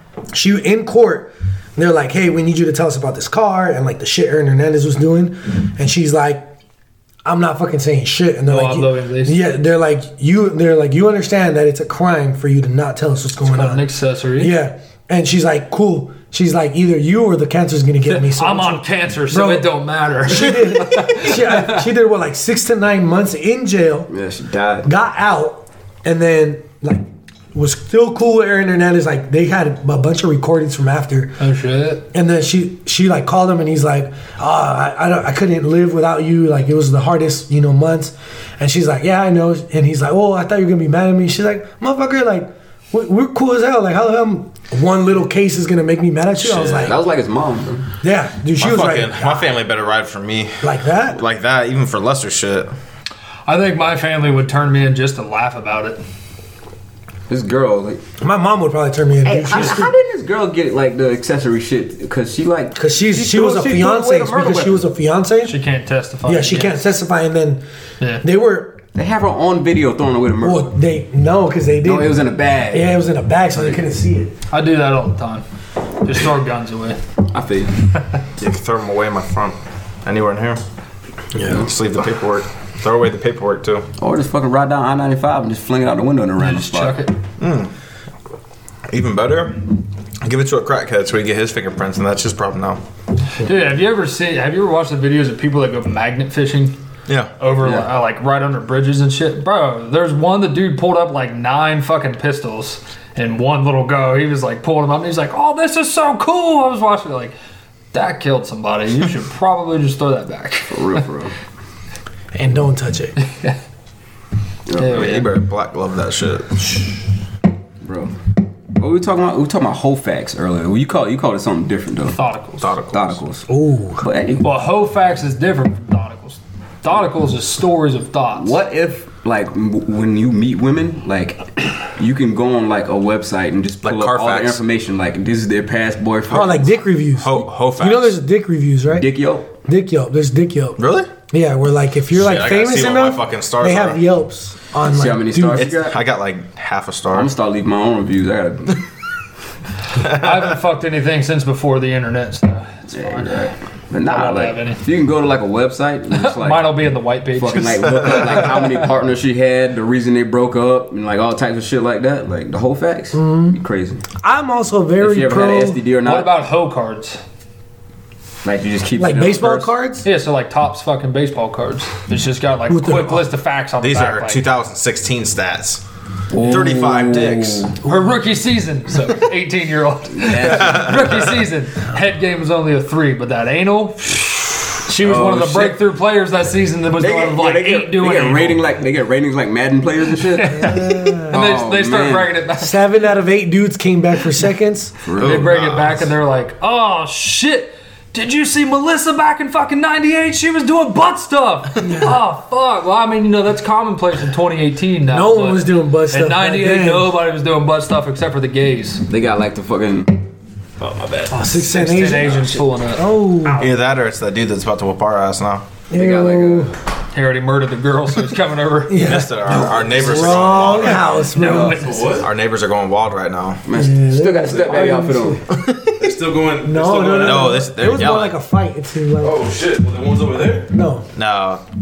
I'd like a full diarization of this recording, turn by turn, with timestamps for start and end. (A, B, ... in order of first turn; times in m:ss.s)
0:00.3-0:06.5 A
0:07.2-0:13.9 A
0:08.5-0:09.4 B
0:13.4-0:14.6 B
0:14.4-0:24.1 A
0:18.1-0:21.8 B
0:24.1-0:24.9 C
0:24.8-0:31.4 A
0:31.4-0:32.0 B
0:32.1-0:47.0 A
0:46.4-0:47.9 C
0:48.0-0:49.5 A
0:48.6-0:52.7 D
0:50.6-0:51.2 A
0:53.5-0:56.0 B
0:57.3-0:58.0 C
0:58.2-0:59.9 A
0:59.2-1:04.8 C
1:02.8-1:05.6 A
1:05.4-1:06.8 B
1:06.2-1:07.6 A
1:08.2-1:08.8 A
1:08.9-1:10.7 C
1:10.4-1:14.3 A
1:11.8-1:13.0 C
1:14.5-1:15.4 B
1:16.0-1:17.0 B
1:17.3-1:17.7 C
1:18.4-1:20.6 D
1:21.4-1:21.6 A
1:21.5-1:23.9 D
1:24.0-1:27.0 C
1:26.4-1:27.2 B
1:27.4-1:27.7 D
1:28.9-1:29.6 D
1:30.2-1:32.8 D
1:33.4-1:36.8 B
1:37.4-1:47.3 B
1:37.6-1:37.9 C
1:47.9-1:51.0 B
1:50.7-1:51.3 C
1:52.3-1:53.2 A
1:53.2-1:53.6 B
1:54.7-1:55.2 C
1:54.8-1:55.3 B
1:54.9-1:56.7 D
1:57.8-1:58.1 C
1:58.8-2:02.2 C
2:02.1-2:02.7 B
2:02.6-2:03.2 D
2:02.9-2:03.5 C
2:03.5-2:04.0 A
2:04.0-2:04.5 C
2:04.4-2:08.5 B
2:08.3-2:16.7 C
2:13.8-2:14.6 D
2:16.3-2:19.1 A
2:17.2-2:18.2 D
2:19.0-2:19.5 C
2:19.6-2:25.7 A
2:20.8-2:21.1 D
2:22.1-2:24.0 D
2:24.9-2:26.0 C
2:25.6-2:27.3 D
2:27.1-2:28.8 C
2:30.0-2:30.5 D
2:30.0-2:33.5 B
2:32.9-2:44.0 C
2:34.0-2:34.8 B
2:36.1-2:38.6 B
2:37.6-2:38.5 D
2:43.1-2:43.6 A
2:44.2-2:45.8 A
2:45.0-2:46.3 C
2:46.0-2:47.2 B
2:48.4-2:49.7 C
2:49.0-2:50.1 A
2:50.0-2:54.4 B
2:52.7-2:53.3 A
2:53.8-2:55.8 D
2:56.3-2:57.7 C
2:56.4-2:57.7 D
2:57.8-3:08.6 B
3:00.1-3:01.1 C
3:00.5-3:01.4 D
3:05.0-3:05.8 C
3:07.0-3:10.7 C
3:10.3-3:12.9 B
3:10.5-3:11.4 A
3:11.3-3:12.3 C
3:12.6-3:15.0 A
3:15.0-3:15.5 C
3:15.2-3:16.1 D
3:15.2-3:29.0 B
3:21.8-3:22.2 A
3:25.1-3:27.2 A
3:29.1-3:30.2 C
3:30.8-3:31.3 C
3:31.3-3:33.6 A
3:31.5-3:33.8 B
3:33.6-3:35.7 D
3:35.9-3:36.7 A
3:35.9-3:36.7 C
3:37.1-3:39.1 B
3:38.9-3:41.8 A
3:38.9-3:41.2 D
3:41.3-3:42.2 B
3:41.6-3:42.3 E
3:42.2-3:43.6 D
3:43.6-3:45.4 C
3:43.7-3:45.4 A
3:45.5-3:46.1 D
3:46.0-3:47.6 E
3:46.6-3:49.4 A
3:47.2-3:48.3 D
3:49.2-3:50.7 E
3:50.7-3:51.1 A
3:51.1-3:51.6 D